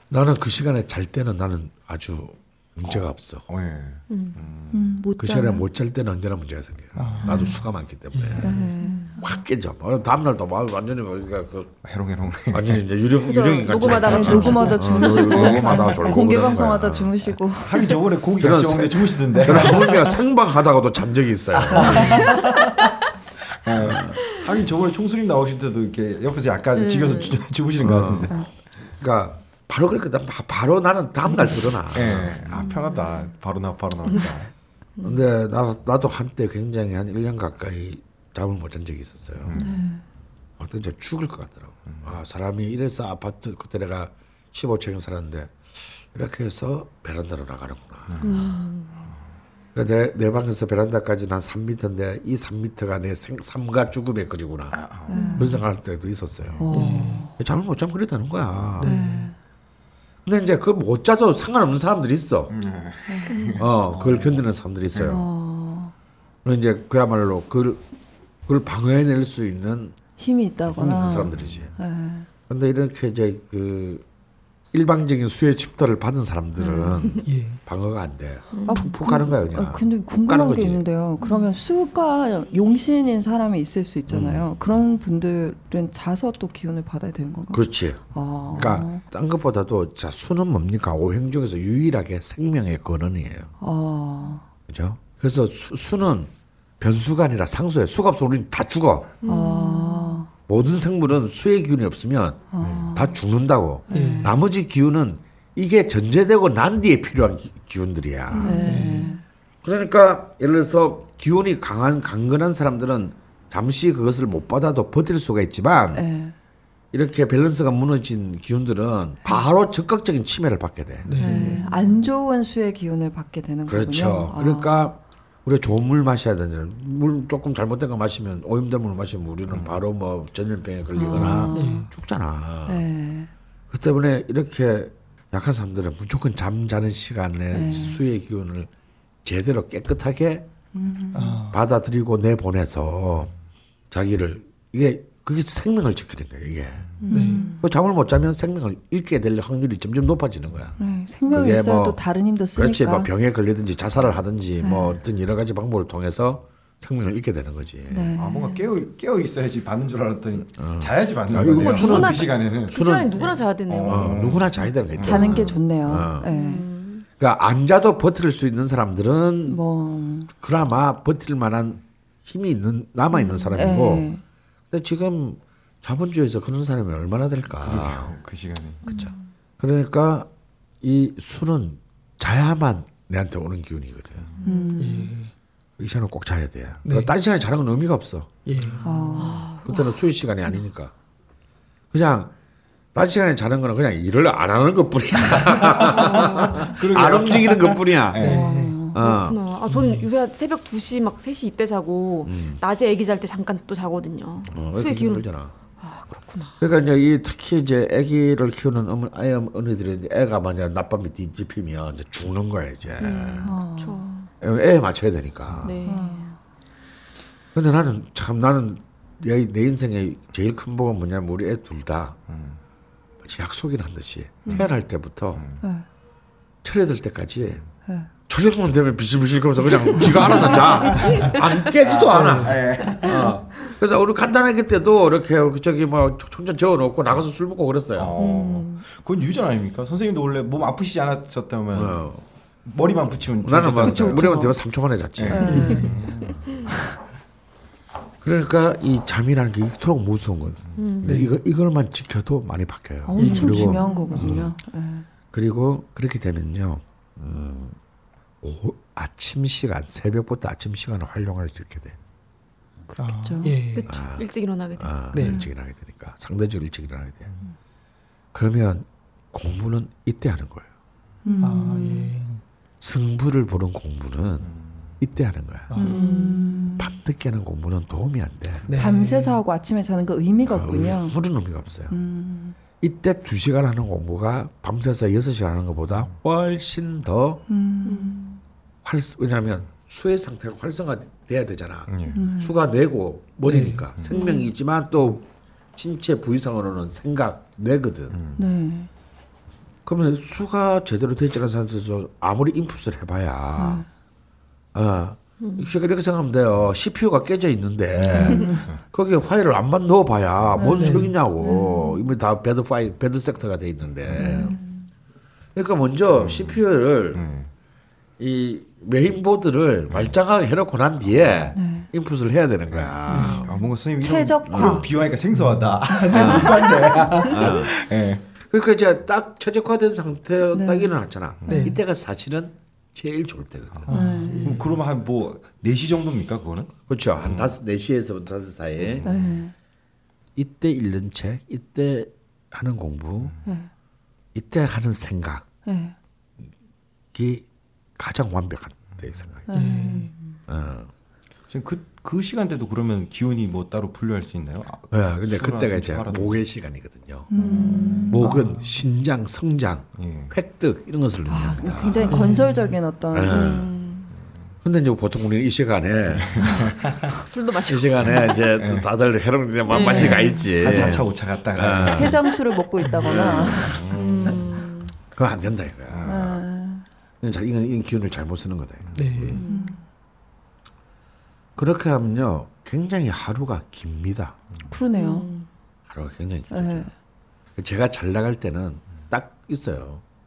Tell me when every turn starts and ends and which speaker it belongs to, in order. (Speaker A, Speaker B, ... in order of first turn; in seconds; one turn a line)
Speaker A: 0.1-3.5
Speaker B: 3.5-5.0
Speaker C: 4.1-4.4
Speaker D: 4.7-5.6
Speaker A: 5.2-8.5
Speaker E: 7.0-7.5
Speaker B: 7.0-7.4
Speaker D: 7.2-7.6
Speaker B: 8.1-8.5
Speaker D: 8.4-9.4
Speaker C: 8.8-9.1
Speaker A: 9.2-11.8
Speaker B: 11.8-12.8
Speaker A: 12.5-17.4
Speaker C: 13.2-15.6
Speaker D: 13.6-18.0
Speaker B: 13.9-16.6
Speaker B: 17.6-20.2
Speaker A: 18.4-22.2
Speaker B: 21.6-22.8
Speaker D: 22.0-22.4
Speaker B: 23.5-28.4
Speaker A: 23.7-24.2
Speaker C: 26.7-27.5
Speaker A: 27.8-32.6
Speaker B: 31.9-34.5
Speaker D: 32.5-33.1
Speaker C: 35.0-35.2
Speaker A: 35.0-39.6
Speaker B: 39.4-39.7
Speaker D: 39.5-40.0
Speaker A: 40.6-48.2
Speaker B: 41.9-42.2
Speaker B: 48.1-48.4
Speaker C: 48.2-49.1
Speaker D: 48.2-48.6
Speaker A: 49.7-56.6
Speaker B: 54.7-55.3
Speaker D: 55.1-55.6
Speaker E: 55.1-55.5
Speaker D: 56.6-57.3
Speaker E: 56.7-57.3
Speaker A: 57.4-58.9
Speaker E: 58.8-59.3
Speaker D: 58.8-59.3
Speaker A: 60.2-62.6
Speaker B: 62.5-64.4
Speaker D: 63.1-63.5
Speaker C: 63.3-63.6
Speaker A: 63.6-65.2
Speaker D: 65.0-65.9
Speaker A: 66.4-67.8
Speaker A: 68.5-70.0
Speaker D: 70.2-72.3
Speaker A: 70.7-71.7
Speaker B: 70.8-71.7
Speaker A: 72.5-74.0
Speaker A: 74.7-80.8
Speaker D: 76.6-77.0
Speaker E: 77.2-77.6
Speaker C: 78.5-78.9
Speaker D: 78.7-89.0
Speaker C: 81.2-81.5
Speaker A: 84.1-84.5
Speaker A: 87.5-93.5
Speaker D: 93.6-94.5
Speaker A: 94.7-99.1
Speaker C: 99.2-100.1
Speaker D: 99.2-100.3
Speaker A: 100.5-108.8
Speaker D: 102.5-103.2
Speaker B: 102.6-102.9
Speaker D: 103.9-104.3
Speaker E: 103.9-104.4
Speaker D: 108.3-109.2
Speaker E: 108.6-109.2
Speaker A: 109.6-116.0
Speaker D: 115.9-116.3
Speaker A: 116.9-121.1
Speaker E: 121.0-121.7
Speaker D: 121.2-124.9
Speaker A: 123.7-132.8
Speaker B: 129.5-129.8
Speaker D: 130.9-131.9
Speaker E: 131.5-131.9
Speaker D: 132.7-133.3
Speaker A: 133.7-138.7
Speaker D: 137.5-138.0
Speaker A: 139.2-140.5
Speaker D: 140.7-141.4
Speaker E: 141.1-141.6
Speaker A: 141.5-143.3
Speaker A: 143.9-146.9
Speaker D: 147.1-147.6
Speaker E: 147.1-147.5
Speaker A: 147.6-150.8
Speaker D: 150.8-153.1
Speaker A: 151.3-152.0
Speaker A: 152.5-158.1
Speaker D: 154.6-155.0
Speaker D: 157.9-158.7
Speaker B: 158.1-166.0
Speaker A: 160.6-163.2
Speaker C: 161.5-164.5
Speaker A: 163.8-166.3
Speaker D: 165.0-166.6
Speaker C: 166.2-167.1
Speaker A: 167.2-169.6
Speaker D: 169.5-170.3
Speaker A: 170.3-174.1
Speaker D: 173.2-174.2
Speaker A: 174.7-178.2
Speaker B: 177.6-179.0
Speaker D: 178.9-179.1
Speaker A: 178.9-180.3
Speaker A: 180.8-184.3
Speaker C: 184.4-184.8
Speaker D: 184.4-185.1
Speaker E: 184.8-185.3
Speaker A: 185.8-188.3
Speaker E: 186.8-187.1
Speaker E: 188.4-189.3
Speaker B: 188.5-188.8
Speaker D: 188.8-189.6
Speaker C: 189.2-190.0
Speaker A: 189.6-190.9
Speaker A: 191.9-192.3
Speaker A: 192.9-198.3
Speaker B: 195.8-198.4
Speaker C: 195.9-196.7
Speaker E: 198.2-198.8
Speaker D: 198.2-199.0
Speaker A: 198.9-199.4
Speaker C: 198.9-205.3
Speaker A: 202.2-202.6
Speaker A: 204.5-205.5
Speaker C: 205.8-206.6
Speaker A: 206.6-213.5
Speaker C: 213.0-214.3
Speaker D: 213.4-214.1
Speaker A: 214.4-215.9
Speaker C: 215.6-216.2
Speaker D: 215.8-216.4
Speaker A: 217.5-222.2
Speaker B: 222.3-222.6
Speaker A: 223.2-225.4
Speaker B: 224.4-224.7
Speaker B: 225.3-225.6
Speaker A: 226.6-227.6
Speaker A: 228.3-238.3
Speaker B: 230.9-233.3
Speaker E: 232.3-232.5
Speaker B: 237.9-242.1
Speaker C: 238.2-238.8
Speaker A: 241.7-242.2
Speaker B: 242.6-244.5
Speaker A: 243.4-245.5
Speaker D: 243.8-244.5
Speaker B: 245.2-246.7
Speaker C: 245.3-245.8
Speaker D: 245.3-245.9
Speaker E: 245.5-246.0
Speaker A: 248.2-254.5
Speaker C: 250.8-251.1
Speaker E: 251.0-251.4
Speaker D: 253.0-255.1
Speaker E: 253.2-253.9
Speaker C: 253.7-254.2
Speaker A: 255.3-257.8
Speaker A: 258.4-262.0
Speaker D: 262.9-263.6
Speaker E: 263.0-263.9
Speaker C: 263.7-265.0
Speaker A: 263.9-267.3
Speaker E: 265.1-265.4
Speaker D: 265.2-265.5
Speaker A: 268.3-270.7
Speaker D: 271.2-272.1
Speaker E: 271.4-272.4
Speaker A: 272.8-275.7
Speaker B: 274.4-275.0
Speaker E: 275.7-276.0
Speaker D: 275.8-276.9
Speaker C: 275.9-276.4
Speaker A: 276.8-278.7
Speaker E: 278.7-279.4
Speaker D: 278.8-281.2
Speaker A: 280.4-281.9
Speaker D: 281.9-282.6
Speaker A: 282.8-287.4
Speaker D: 287.5-288.4
Speaker C: 287.8-288.2
Speaker A: 288.8-298.2
Speaker B: 291.9-292.2
Speaker D: 292.1-292.6
Speaker E: 293.4-293.8
Speaker B: 294.0-294.2
Speaker C: 294.1-294.4
Speaker B: 298.1-298.4
Speaker D: 298.4-298.9
Speaker A: 299.9-303.9
Speaker D: 303.6-303.9
Speaker A: 304.7-314.6
Speaker C: 305.4-305.7
Speaker D: 308.1-308.6
Speaker C: 308.2-308.5
Speaker D: 310.6-312.0
Speaker E: 310.8-311.1
Speaker B: 314.1-314.5
Speaker D: 314.2-314.9
Speaker A: 315.5-317.2
Speaker B: 316.2-316.6
Speaker B: 317.1-317.5
Speaker A: 318.2-323.5
Speaker B: 319.9-320.2
Speaker D: 321.5-321.9
Speaker D: 323.1-324.9
Speaker B: 323.2-328.2
Speaker A: 324.4-324.9
Speaker E: 325.3-325.8
Speaker D: 326.1-327.0
Speaker A: 326.1-326.5
Speaker A: 327.2-327.7
Speaker A: 328.4-333.9
Speaker D: 330.5-330.9
Speaker B: 331.4-331.7
Speaker D: 331.5-331.8
Speaker B: 333.8-337.5
Speaker E: 333.9-334.8
Speaker D: 333.9-334.6
Speaker A: 336.9-339.1
Speaker B: 338.8-339.4
Speaker D: 339.0-339.5
Speaker A: 340.4-343.3
Speaker D: 343.4-343.7
Speaker A: 344.3-345.5
Speaker D: 345.6-345.9
Speaker A: 347.1-349.5
Speaker D: 349.5-350.1
Speaker E: 349.5-350.0
Speaker C: 349.6-350.4
Speaker A: 350.5-350.9
Speaker B: 351.5-356.4
Speaker A: 354.9-357.3
Speaker D: 357.3-358.2
Speaker C: 357.4-358.2
Speaker E: 357.9-358.7
Speaker A: 358.1-362.1
Speaker B: 359.9-360.3
Speaker D: 361.3-363.7
Speaker E: 362.1-362.7
Speaker A: 363.1-363.7
Speaker C: 363.3-364.1
Speaker A: 364.6-366.8
Speaker B: 366.1-367.1
Speaker C: 367.2-368.4
Speaker A: 367.6-372.2
Speaker B: 368.5-368.9
Speaker C: 369.7-370.4
Speaker B: 369.8-372.2
Speaker D: 371.9-374.3
Speaker B: 372.9-374.4
Speaker C: 373.9-374.9
Speaker A: 375.1-376.4
Speaker B: 375.9-376.3
Speaker D: 376.1-376.9
Speaker A: 377.2-379.4
Speaker B: 378.9-379.5
Speaker E: 378.9-379.4
Speaker C: 379.4-379.8
Speaker D: 379.4-379.8
Speaker A: 381.6-384.4
Speaker D: 384.7-385.3
Speaker C: 384.9-385.5
Speaker A: 385.9-386.9
Speaker D: 386.5-386.9
Speaker A: 387.6-390.0